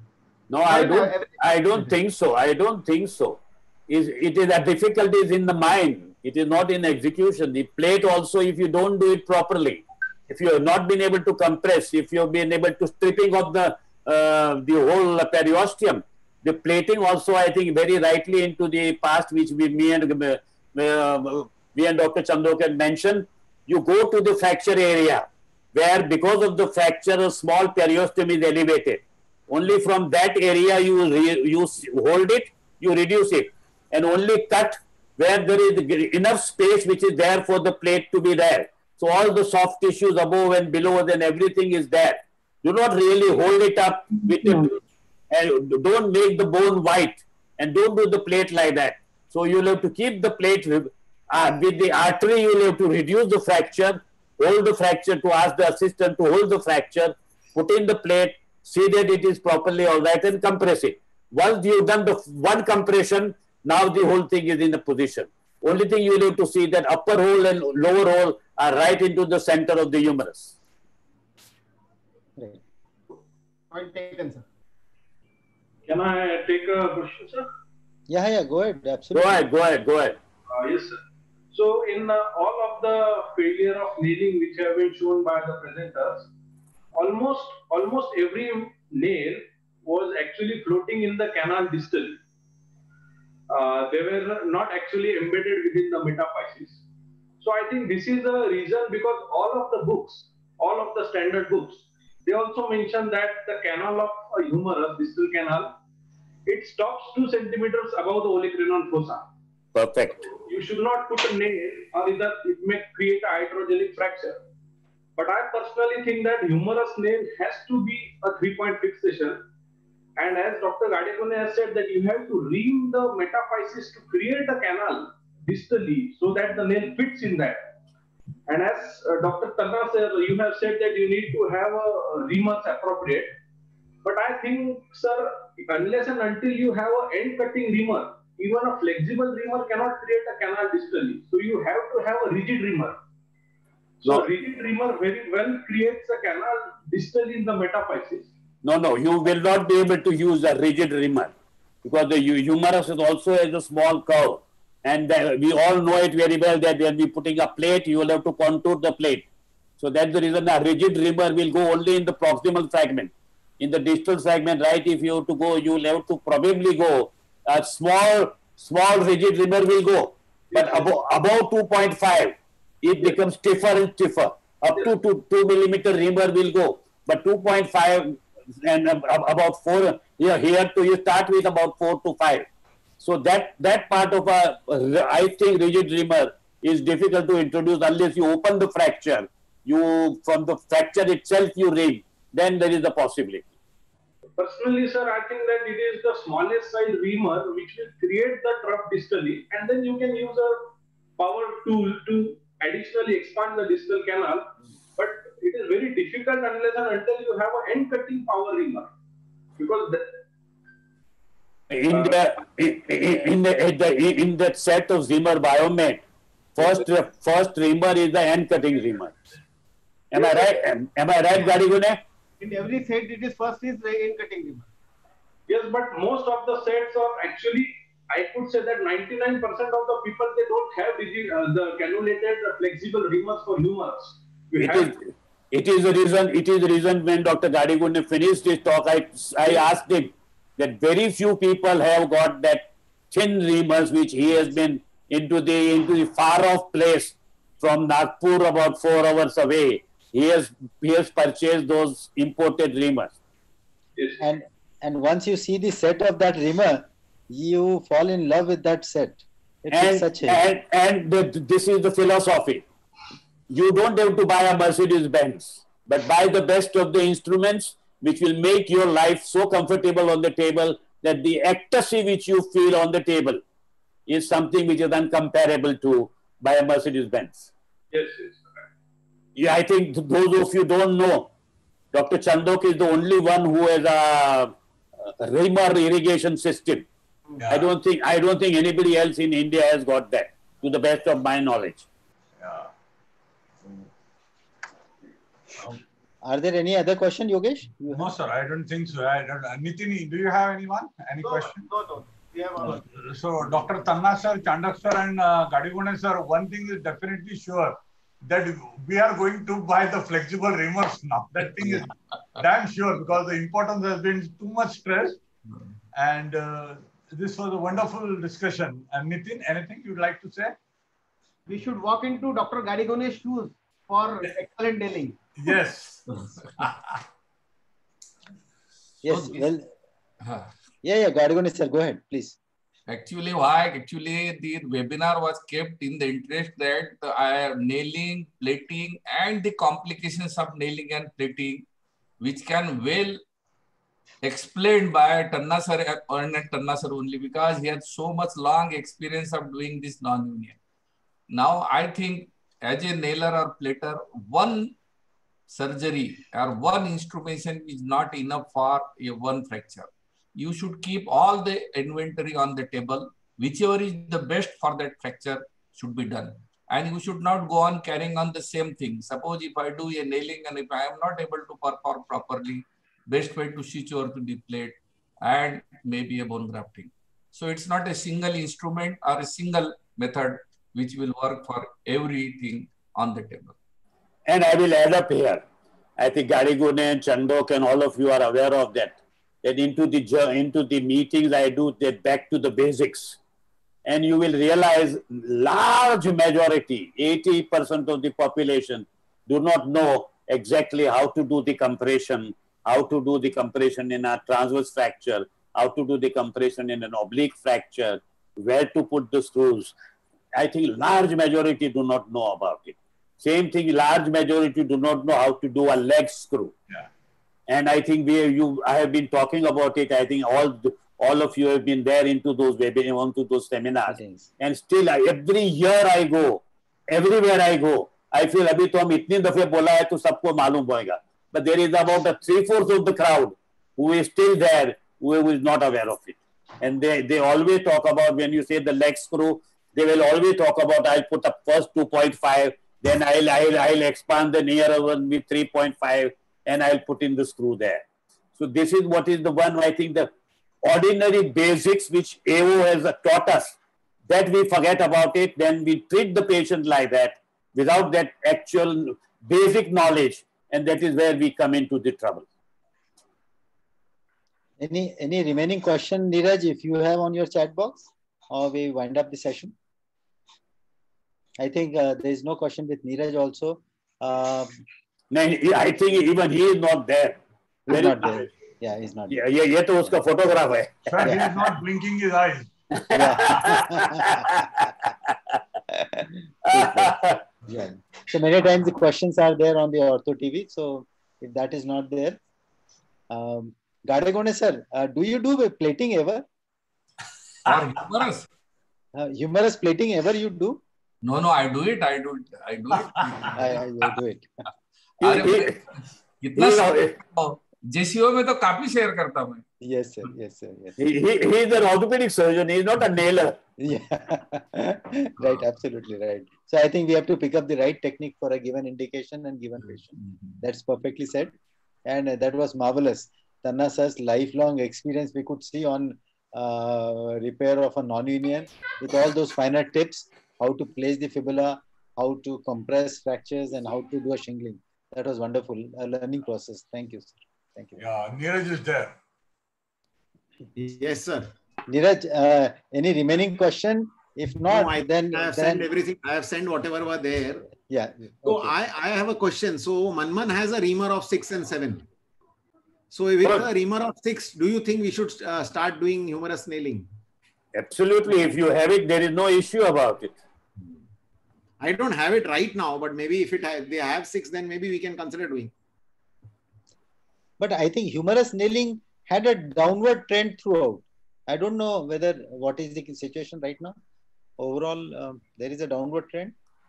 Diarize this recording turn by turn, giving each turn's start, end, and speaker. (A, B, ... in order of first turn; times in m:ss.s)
0:00.5-0:44.8 A
0:00.6-0:01.9 B
0:45.3-1:10.5 A
1:13.7-1:14.4 B
1:15.9-1:17.5 C
1:18.1-1:19.4 D
1:19.1-1:20.2 A
1:20.5-1:21.0 C
1:21.5-1:26.3 C
1:26.9-1:32.2 C
1:33.5-1:36.8 C
1:37.4-1:45.8 C
1:46.4-1:49.2 C
1:49.7-1:50.3 A
1:50.4-1:54.4 C
1:55.2-1:59.4 C
2:00.2-2:07.7 C
2:08.5-2:13.3 C
2:14.0-2:23.0 C
2:24.0-2:28.3 C
2:28.6-2:31.3 A
2:31.8-2:39.3 A
2:39.8-3:02.5 A
2:50.5-2:50.9 C
3:03.0-3:13.4 A
3:14.4-3:28.9 C
3:29.6-3:30.1 C
3:31.7-3:36.0 A
3:31.9-3:32.2 C
3:36.6-3:39.2 A
3:36.6-3:36.8 C
3:40.1-3:42.0 A
3:40.1-3:40.5 C
3:42.4-3:44.7 B
3:45.5-3:54.9 C
3:54.6-4:13.2 A
4:14.2-4:20.4 D
4:19.7-4:22.6 A
4:23.5-4:33.4 A
4:34.1-4:37.5 A
4:37.9-4:38.6 C
4:39.4-4:41.3 A
4:41.9-4:44.5 A
4:45.1-4:46.9 A
4:47.4-4:47.7 E
4:47.5-4:51.9 A
4:52.4-4:52.7 E
4:56.2-4:58.1 D
4:57.9-5:01.6 E
5:01.2-5:02.8 B
5:02.8-5:15.2 E
5:15.9-5:20.6 E
5:21.5-5:25.6 B
5:25.4-5:27.0 E
5:29.0-5:29.7 D
5:30.2-5:30.5 F
5:30.8-5:32.4 D
5:32.9-5:41.6 F
5:42.2-5:43.2 F
5:44.2-5:50.6 F
5:51.3-5:54.7 F
5:55.5-6:23.5 F
6:24.3-6:25.4 A
6:26.0-6:33.2 A
6:33.8-6:49.7 A
6:50.3-6:56.5 A
6:57.5-7:27.8 A
7:03.9-7:04.3 D
7:28.4-7:30.1 A
7:30.6-7:33.6 A
7:34.1-7:42.2 A
7:44.6-7:49.5 D
7:51.4-7:54.6 D
7:55.1-7:58.3 A
7:57.7-7:59.2 D
7:59.1-8:01.0 A
8:00.9-8:02.5 E
8:01.0-8:01.4 D
8:02.7-8:04.7 A
8:02.9-8:04.4 D
8:05.7-8:12.2 D
8:06.4-8:07.2 A
8:13.1-8:16.2 D
8:17.4-8:18.3 F
8:18.9-8:20.6 D
8:21.0-8:23.5 F
8:23.3-8:24.3 D
8:25.0-8:25.6 A
8:25.0-8:25.6 F
8:26.2-8:29.4 F
8:26.4-8:27.0 A
8:29.6-8:30.8 D
8:30.8-8:33.4 A
8:33.6-8:41.3 D
8:41.8-8:57.8 D
8:57.8-8:58.9 E
9:00.5-9:01.3 G
9:01.7-9:05.7 D
9:04.5-9:07.5 G
9:07.7-9:08.5 D
9:08.2-9:11.8 G
9:12.9-9:16.9 G
9:13.2-9:13.5 A
9:17.5-9:20.1 A
9:21.6-9:25.5 G
9:27.4-9:33.8 D
9:34.4-9:36.3 D